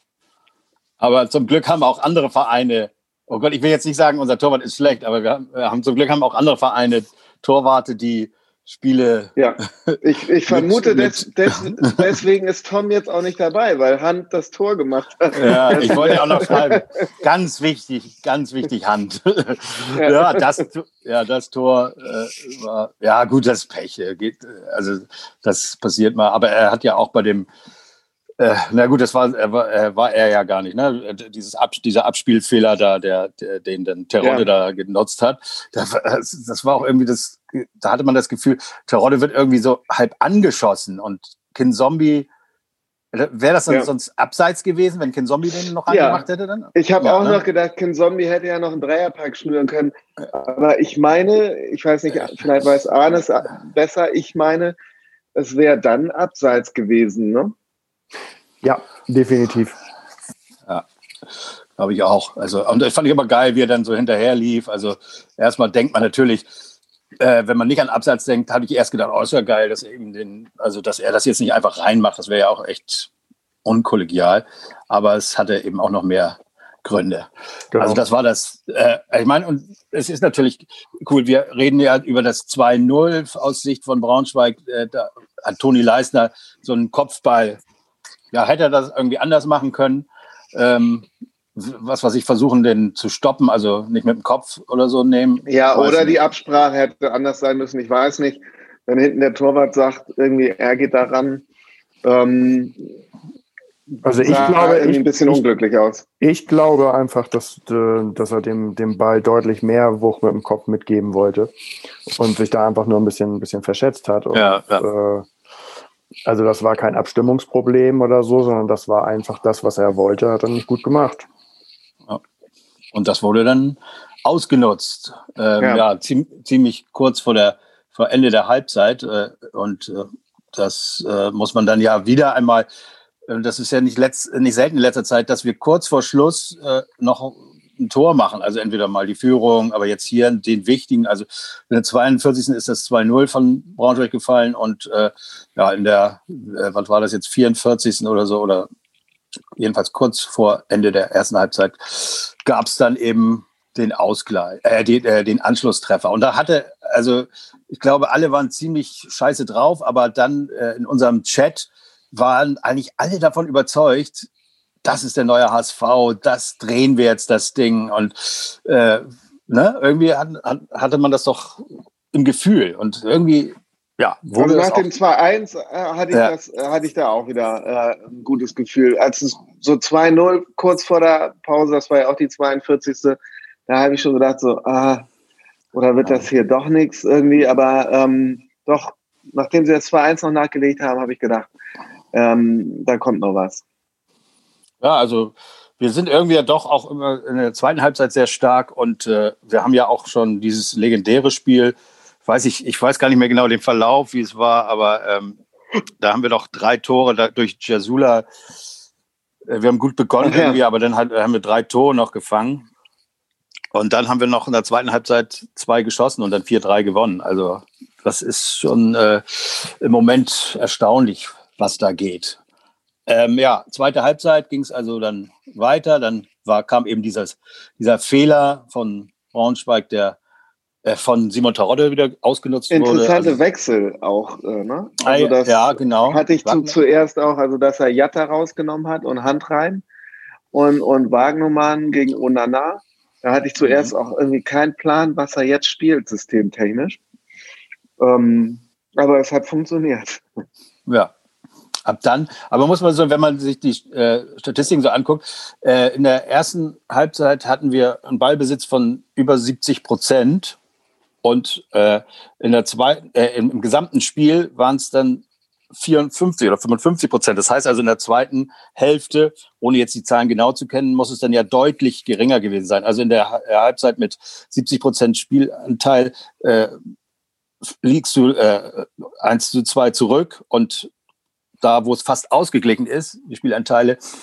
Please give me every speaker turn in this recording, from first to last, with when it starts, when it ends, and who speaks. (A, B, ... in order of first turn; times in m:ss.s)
0:01.0-0:12.2 A
0:09.4-0:16.8 B
0:15.3-0:27.5 A
0:20.0-0:20.5 B
0:28.4-0:42.3 A
0:34.2-0:34.5 B
0:43.1-0:47.4 A
0:45.9-0:54.8 B
0:55.3-0:57.5 B
0:58.6-0:59.8 C
1:01.8-1:06.4 A
1:07.2-1:13.1 A
1:13.6-1:27.6 A
1:17.7-1:18.0 C
1:28.3-1:36.2 A
1:35.4-1:41.4 B
1:42.0-1:42.8 B
1:44.0-1:45.4 C
1:44.2-1:46.0 B
1:46.2-1:51.5 C
1:52.1-1:55.3 C
1:54.3-1:54.8 A
1:56.2-2:01.2 C
2:02.9-2:12.7 A
2:13.3-2:28.7 A
2:29.6-2:44.3 A
2:44.8-2:54.8 A
2:54.4-3:05.1 B
3:05.7-3:11.5 B
3:12.1-3:13.6 B
3:14.8-3:25.4 A
3:26.0-3:28.2 A
3:29.5-3:32.7 A
3:30.2-3:30.6 B
3:33.7-3:42.4 A
3:43.1-3:50.2 A
3:50.8-3:53.4 A
3:52.7-3:59.8 B
3:55.0-3:56.7 A
4:00.5-4:07.0 B
4:03.6-4:03.9 A
4:08.0-4:10.2 B
4:10.8-4:11.1 A
4:11.8-4:20.6 A
4:21.2-4:36.8 A
4:37.8-4:40.9 A
4:41.6-4:44.0 A